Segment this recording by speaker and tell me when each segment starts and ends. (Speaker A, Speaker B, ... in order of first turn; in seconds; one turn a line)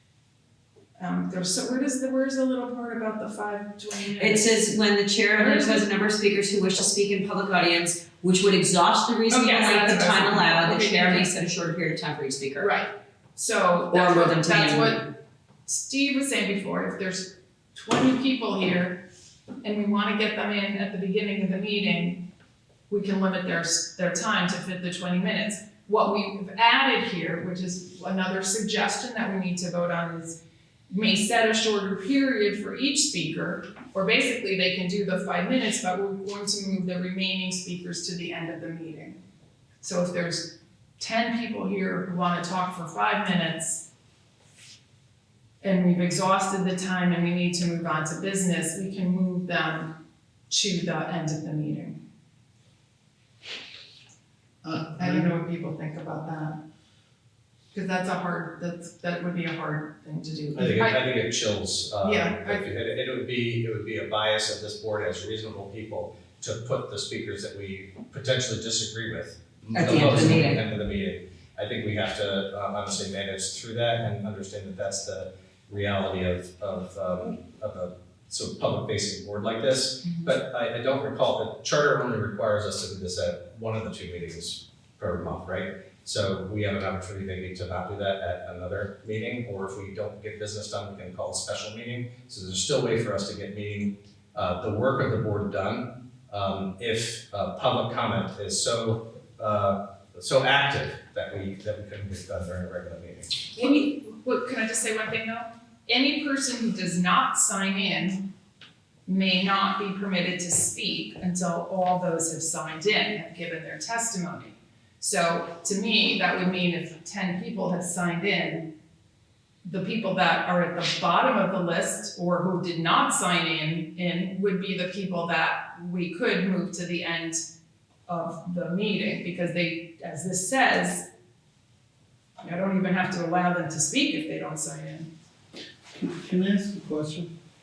Speaker A: 1.0-4.6
Speaker B: 4.2-12.7
Speaker A: 5.3-5.9
Speaker A: 9.3-11.3
Speaker A: 12.6-15.1
Speaker B: 13.9-15.0
Speaker A: 15.7-19.0
Speaker A: 19.6-22.2
Speaker A: 22.9-30.4
Speaker A: 30.9-39.2
Speaker A: 39.8-43.8
Speaker A: 45.6-49.9
Speaker A: 50.5-52.0
Speaker C: 54.6-55.3
Speaker A: 55.0-56.6
Speaker A: 57.7-61.0
Speaker D: 60.5-103.5
Speaker A: 62.0-62.6
Speaker B: 69.7-70.6
Speaker A: 80.0-80.3
Speaker A: 103.5-108.2
Speaker A: 109.1-118.7
Speaker A: 119.6-127.4
Speaker A: 128.1-131.1
Speaker A: 132.4-135.1
Speaker C: 136.0-137.3